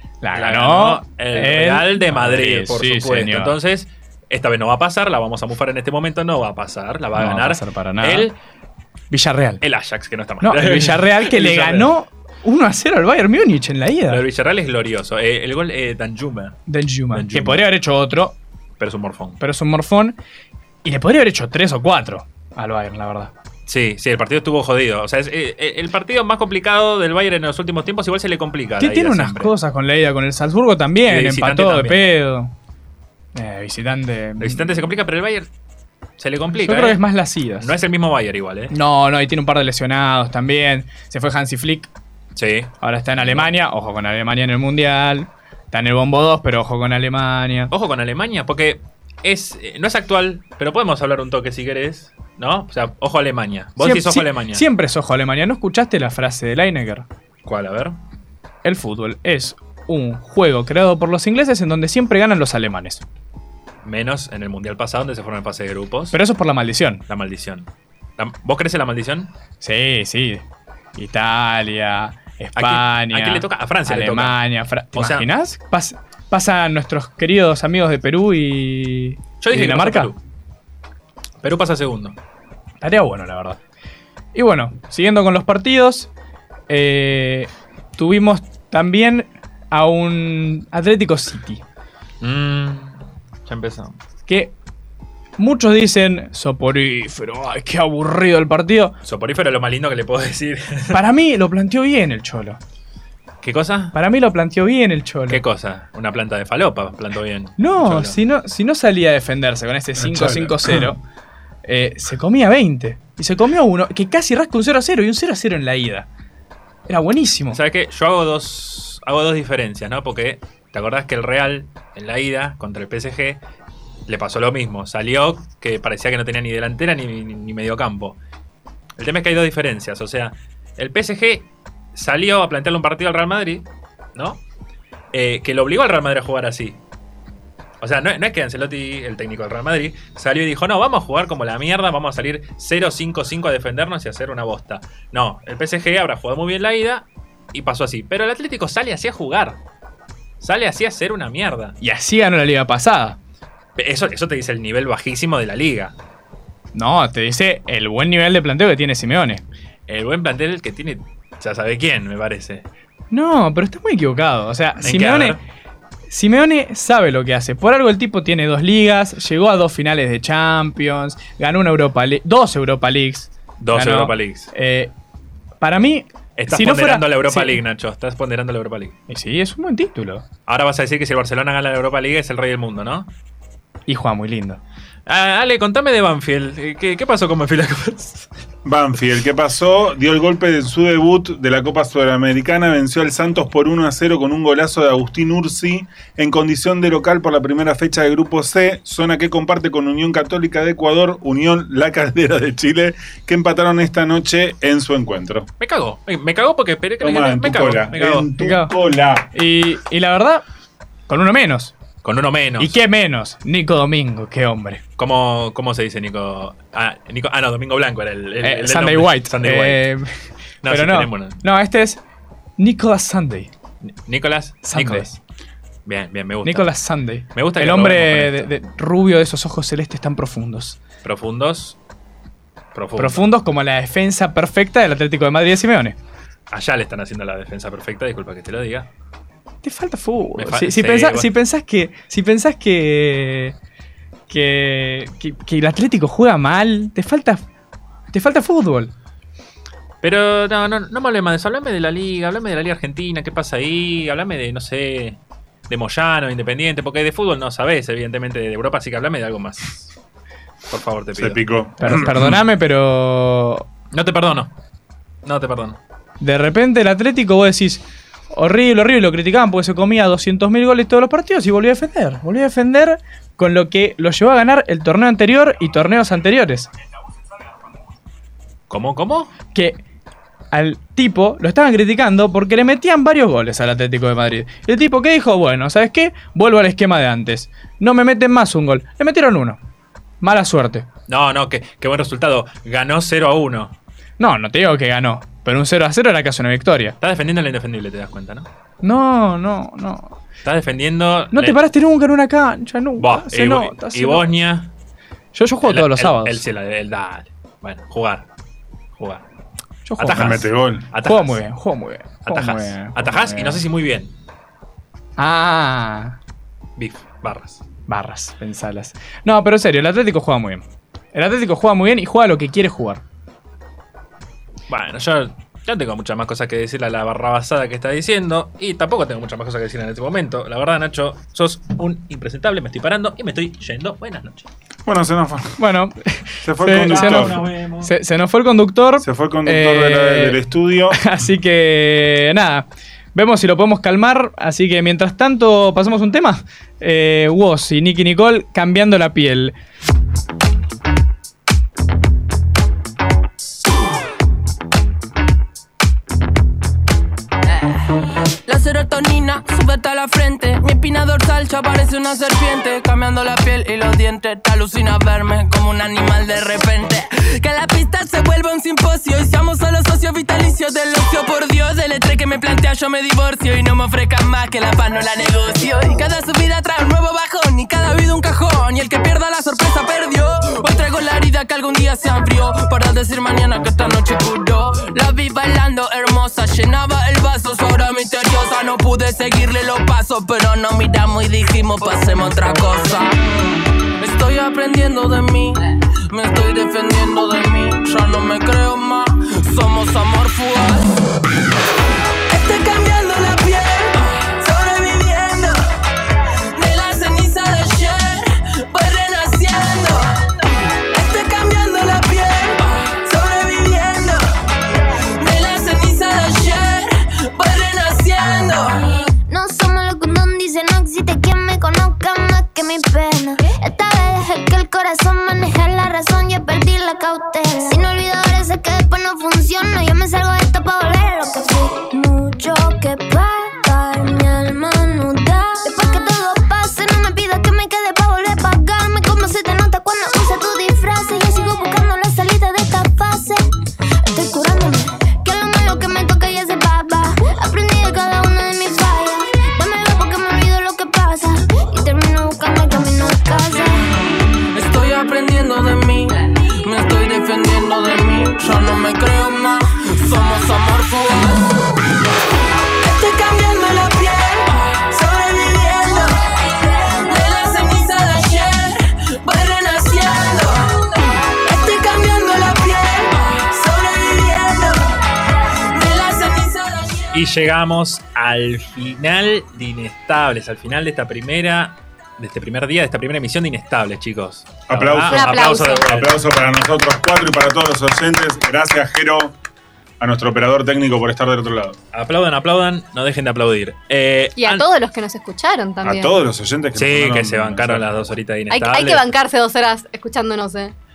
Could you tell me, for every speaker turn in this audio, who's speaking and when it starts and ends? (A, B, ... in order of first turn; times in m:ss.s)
0:00.2-0:03.6 A
0:00.3-0:08.3 B
0:07.2-0:08.3 A
0:09.1-0:09.6 A
0:09.6-0:11.9 B
0:10.4-0:14.2 A
0:14.1-0:16.6 B
0:16.7-0:18.4 A
0:17.1-0:17.6 B
0:18.8-0:19.4 B
0:19.4-0:20.2 A
0:20.8-0:23.3 A
0:23.7-0:29.5 B
0:28.8-0:32.5 A
0:31.0-0:32.0 B
0:33.3-0:34.9 A
0:34.4-0:35.5 B
0:36.2-0:37.0 B
0:36.6-0:37.7 A
0:37.6-0:38.7 B
0:38.7-0:41.9 A
0:42.4-0:43.5 B
0:42.8-0:47.7 A
0:47.7-0:54.6 B
0:53.8-0:57.0 A
0:57.4-0:58.0 B
0:58.6-1:03.0 A
1:03.8-1:06.2 B
1:06.1-1:07.0 A
1:07.1-1:09.3 B
1:09.6-1:10.4 A
1:11.0-1:20.1 A
1:12.6-1:14.4 B
1:14.9-1:15.3 B
1:19.4-1:20.2 B
1:21.4-1:22.2 B
1:22.8-1:23.6 A
1:24.3-1:26.1 A
1:26.7-1:31.6 A
1:32.2-1:34.0 B
1:34.3-1:34.5 A
1:35.4-1:38.9 A
1:39.0-1:41.0 B
1:40.9-1:42.6 A
1:43.4-1:44.0 B
1:43.9-1:45.4 A
1:45.3-1:48.2 B
1:47.6-1:51.0 A
1:50.0-1:50.9 C
1:51.6-1:56.1 A
1:56.8-1:57.6 A
1:57.5-2:03.4 B
2:04.1-2:08.2 B
2:09.0-2:14.4 B
2:15.1-2:16.8 B
2:17.8-2:29.6 B
2:30.4-2:31.8 B
2:31.8-2:33.2 A
2:33.8-2:35.9 B
2:36.7-2:39.4 A
2:39.9-2:42.6 B
2:43.1-2:45.4 A
2:44.8-2:45.4 B
2:46.1-2:54.9 A
2:53.6-2:54.5 B
2:55.6-2:57.6 A
2:56.4-2:59.0 B
2:59.1-3:00.2 A
3:00.5-3:03.1 B
3:03.9-3:04.6 A
3:05.0-3:08.3 B
3:08.6-3:25.5 C
3:25.6-3:28.3 B
3:27.0-3:29.3 C
3:28.4-3:28.7 A
3:29.3-3:30.4 A
3:31.1-3:31.7 A
3:32.0-3:32.8 B
3:32.6-3:34.8 A
3:35.0-3:39.8 B
3:38.4-3:40.1 A
3:40.6-3:41.4 B
3:40.7-3:42.0 A
3:42.6-3:43.5 A
3:43.8-3:45.2 B
3:44.6-3:45.1 A
3:45.8-3:46.7 B
3:46.4-3:50.8 A
3:47.3-3:48.5 B
3:51.0-3:51.8 B
3:52.7-3:53.2 B
3:53.0-3:56.0 A
3:56.5-3:58.9 B
3:59.6-4:03.5 A
4:00.3-4:01.3 B
4:04.3-4:07.4 A
4:08.1-4:08.9 A
4:10.0-4:19.9 B
4:20.7-4:22.3 B
4:21.2-4:22.4 C
4:21.8-4:23.7 A
4:23.9-4:24.5 B
4:25.2-4:25.8 B
4:26.2-4:36.7 A
4:38.7-4:39.3 B
4:40.5-4:49.6 A
4:50.2-4:50.9 A
4:51.1-4:53.8 B
4:54.2-4:57.0 A
4:57.0-4:58.5 B
4:58.8-5:00.2 A
5:00.4-5:01.6 B
5:01.3-5:04.3 A
5:03.0-5:04.7 B
5:05.3-5:06.4 A
5:05.6-5:08.3 B
5:08.9-5:09.2 B
5:09.8-5:10.5 A
5:10.0-5:11.4 B
5:10.1-5:10.9 C
5:11.0-5:13.6 A
5:12.2-5:14.1 B
5:15.2-5:16.2 A
5:16.8-5:17.6 B
5:17.9-5:23.0 A
5:24.7-5:34.5 B
5:34.8-5:35.6 C
5:35.6-5:40.4 A
5:36.4-5:37.4 C
5:36.8-5:37.9 B
5:39.0-5:41.0 C
5:40.9-5:49.5 A
5:57.4-5:57.9 D
5:58.5-6:40.9 D
6:42.3-6:59.0 D
6:59.3-7:23.4 E
7:24.0-7:33.9 E
7:34.5-7:41.8 D
7:42.8-7:57.1 D
7:57.1-8:06.2 B
8:04.7-8:09.4 C
8:05.1-8:05.9 F
8:10.0-8:11.8 C
8:11.9-8:14.6 B
8:14.4-8:16.1 F
8:15.8-8:18.1 C
8:16.7-8:19.1 B
8:18.5-8:20.7 F